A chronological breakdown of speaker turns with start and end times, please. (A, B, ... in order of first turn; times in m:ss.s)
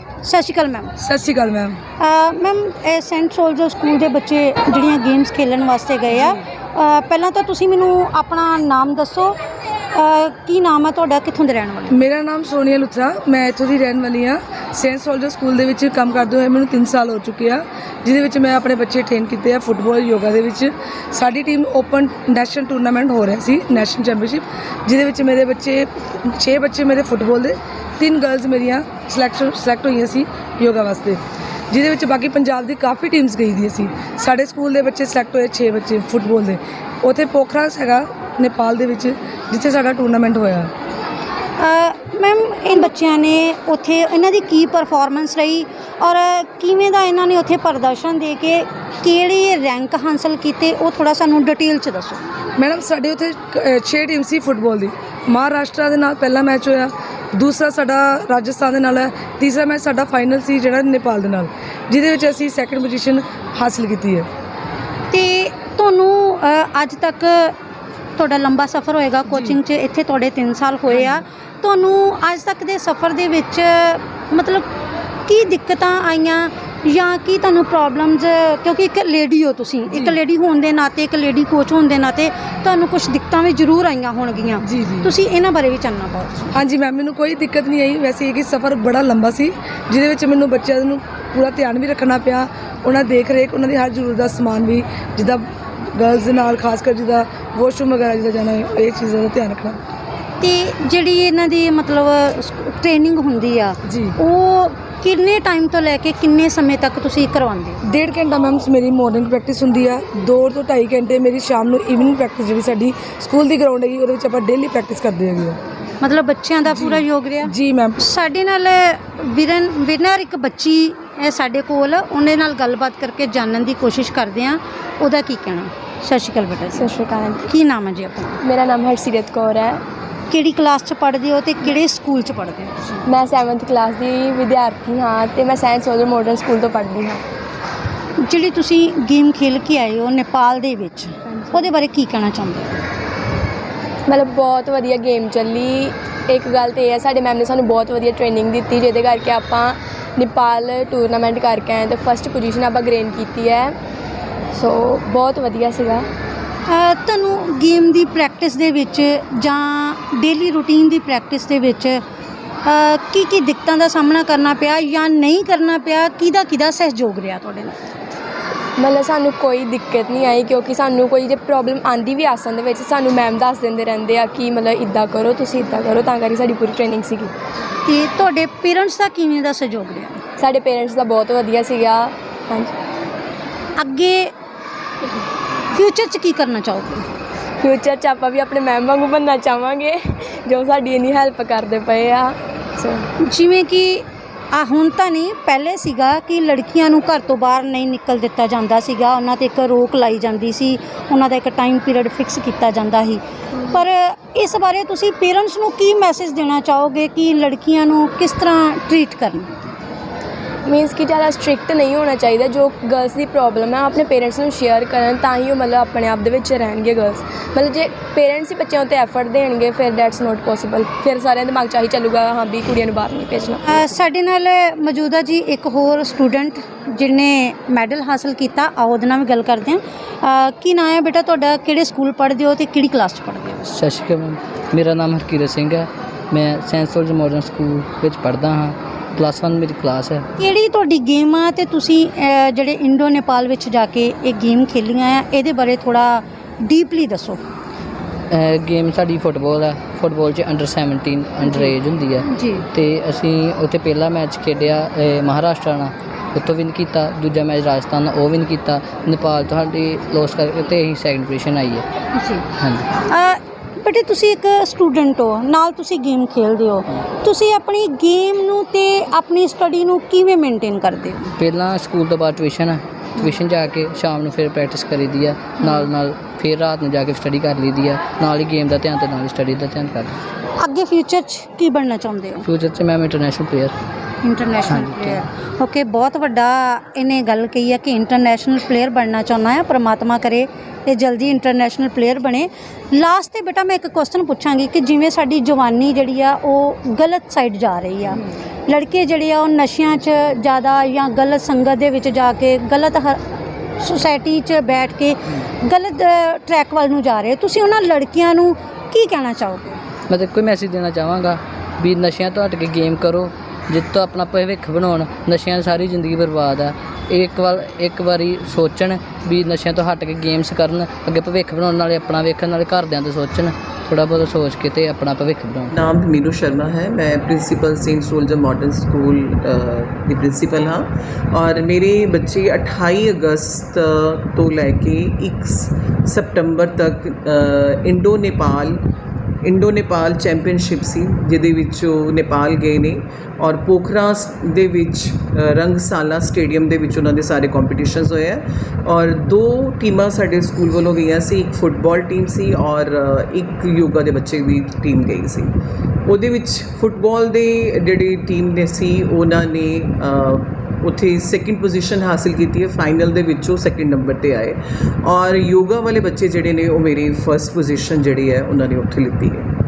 0:00.2-0:01.0 A
0:01.0-0:01.8 B
0:02.0-0:09.4 A
0:06.1-0:06.4 B
0:09.9-0:12.0 A
0:11.9-0:40.7 B
0:41.6-0:52.2 A
0:52.6-1:04.3 B
1:05.1-1:07.6 A
1:08.2-1:14.7 A
1:09.3-1:09.6 B
1:15.3-1:26.5 A
1:19.9-1:20.2 B
1:24.6-1:25.1 B
1:26.5-1:39.8 B
1:40.4-1:47.8 A
1:43.8-1:44.2 B
1:47.8-1:55.6 B
1:56.0-2:06.9 A
1:56.7-1:58.1 B
2:06.8-2:07.5 C
2:07.5-2:08.4 A
2:08.4-2:09.8 C
2:10.3-2:13.0 A
2:13.1-2:17.2 C
2:18.2-2:22.8 A
2:24.1-2:33.8 C
2:34.6-2:36.1 C
2:36.7-2:42.0 A
2:42.6-2:47.8 A
2:48.8-2:57.3 C
2:57.8-3:00.2 A
3:00.4-3:02.7 C
3:03.8-3:04.3 A
3:05.7-3:07.1 A
3:07.6-3:13.1 C
3:13.2-3:29.6 A
3:30.7-3:43.6 C
3:43.7-3:53.7 A
3:53.7-4:00.3 D
4:00.4-4:07.4 A
4:08.3-4:21.9 D
4:11.4-4:11.7 A
4:12.3-4:12.7 A
4:22.2-4:22.5 A
4:22.6-4:22.9 D
4:23.0-4:31.4 A
4:31.4-4:40.2 D
4:35.6-4:35.9 A
4:40.6-4:42.5 A
4:42.4-4:43.8 D
4:44.2-5:03.2 A
4:44.6-4:45.2 D
5:03.8-5:09.8 A
5:10.1-5:25.7 D
5:25.7-5:38.8 E
5:39.4-5:55.5 E
5:56.1-6:09.5 E